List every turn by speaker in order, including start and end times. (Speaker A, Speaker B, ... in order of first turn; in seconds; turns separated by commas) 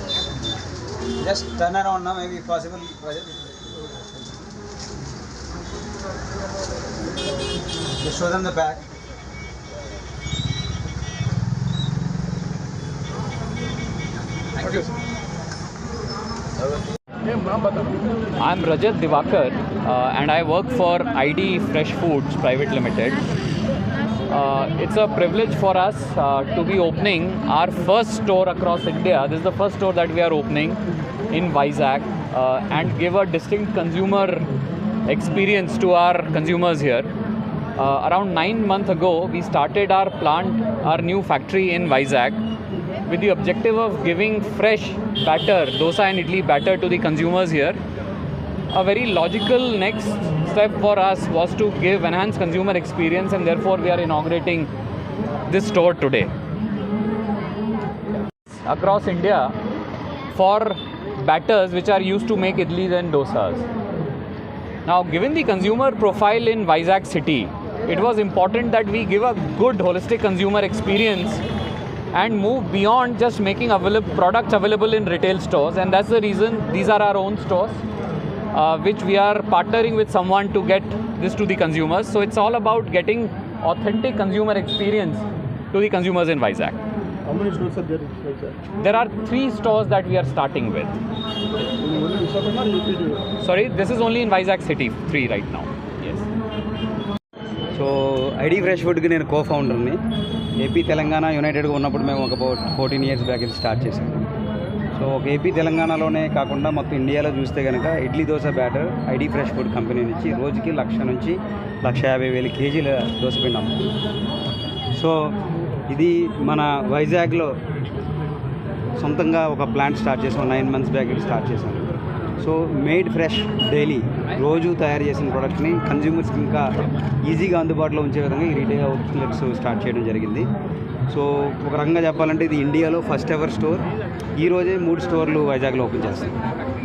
Speaker A: 1.2-3.6, Speaker A: 8.0-8.8, Speaker B: 17.3-17.9, Speaker C: 18.4-23.2, Speaker C: 24.2-30.8, Speaker C: 31.3-34.5, Speaker C: 35.0-37.1, Speaker C: 37.8-42.4, Speaker C: 43.0-47.8, Speaker C: 48.7-54.7, Speaker C: 55.5-56.3, Speaker C: 58.6-59.5, Speaker C: 60.3-63.6, Speaker C: 64.8-71.4, Speaker C: 72.1-77.8, Speaker C: 78.5-86.8, Speaker B: 87.2-88.6, Speaker C: 88.8-91.0, Speaker B: 91.8-93.2, Speaker C: 93.4-96.2, Speaker A: 97.7-100.0, Speaker A: 100.6-104.2, Speaker A: 104.9-113.8, Speaker A: 114.9-115.3, Speaker A: 115.9-117.5, Speaker A: 119.0-126.7, Speaker A: 127.2-130.5, Speaker A: 131.1-133.9, Speaker A: 134.4-136.4